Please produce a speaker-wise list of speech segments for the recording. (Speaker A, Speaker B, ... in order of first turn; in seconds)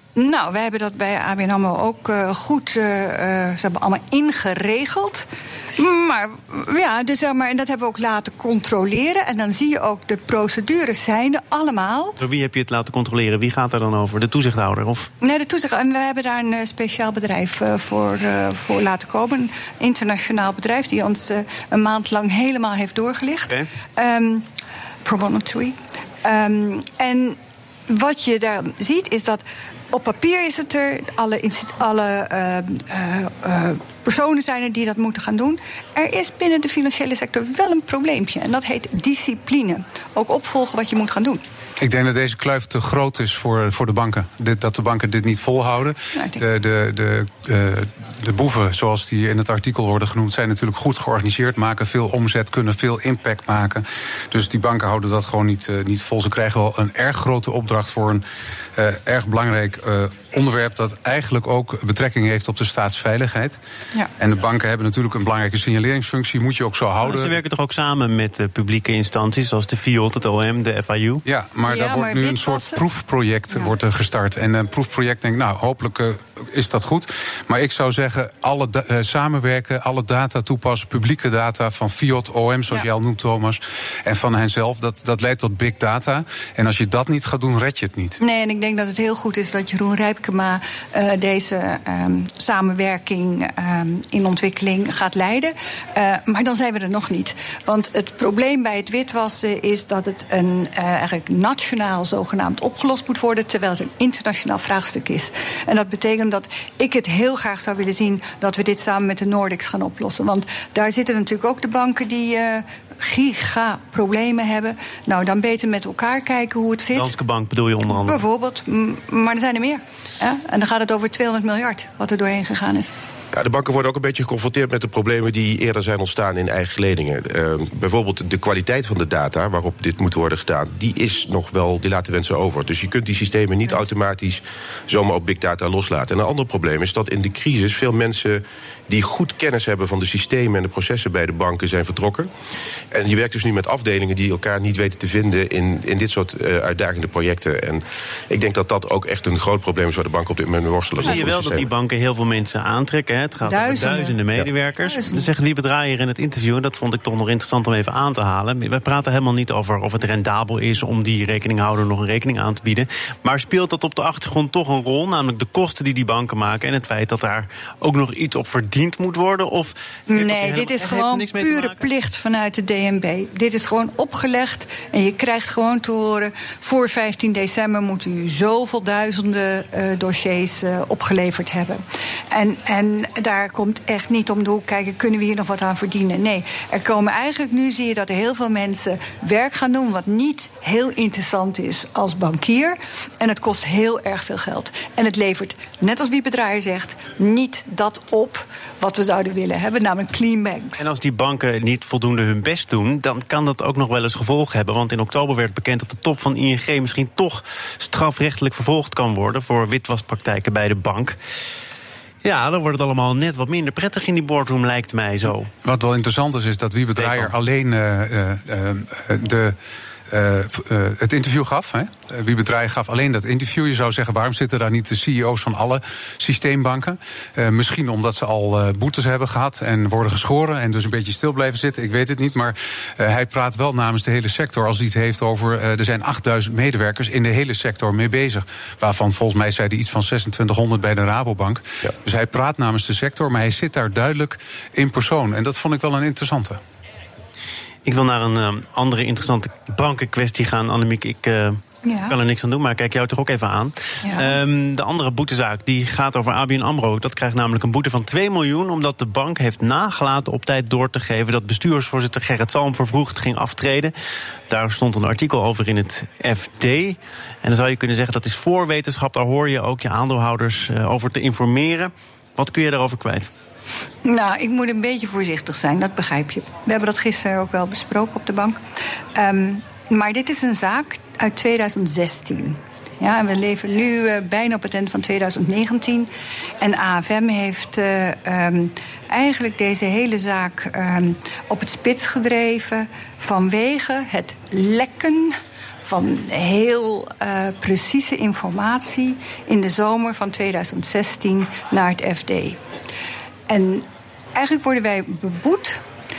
Speaker A: 0.1-12.2, 15.2-24.5, 25.0-41.4, 46.1-46.4, 71.7-72.8, 88.2-117.1, 117.9-122.9, 153.4-154.2, 154.8-155.3, 170.1-200.8, 251.8-252.2, 254.0-254.4, 274.1-278.6, 279.1-286.1, 286.6-302.6, 303.5-305.8
Speaker B: 12.2-15.1, 67.0-71.2, 116.9-118.2, 151.0-171.9, 200.8-211.2, 212.2-215.5, 217.0-217.3, 247.8-263.9, 264.5-273.3
Speaker C: 41.8-58.2, 58.8-63.6, 64.2-67.4, 71.2-88.2, 215.6-219.6, 220.1-246.6
Speaker D: 123.3-142.3, 142.9-151.7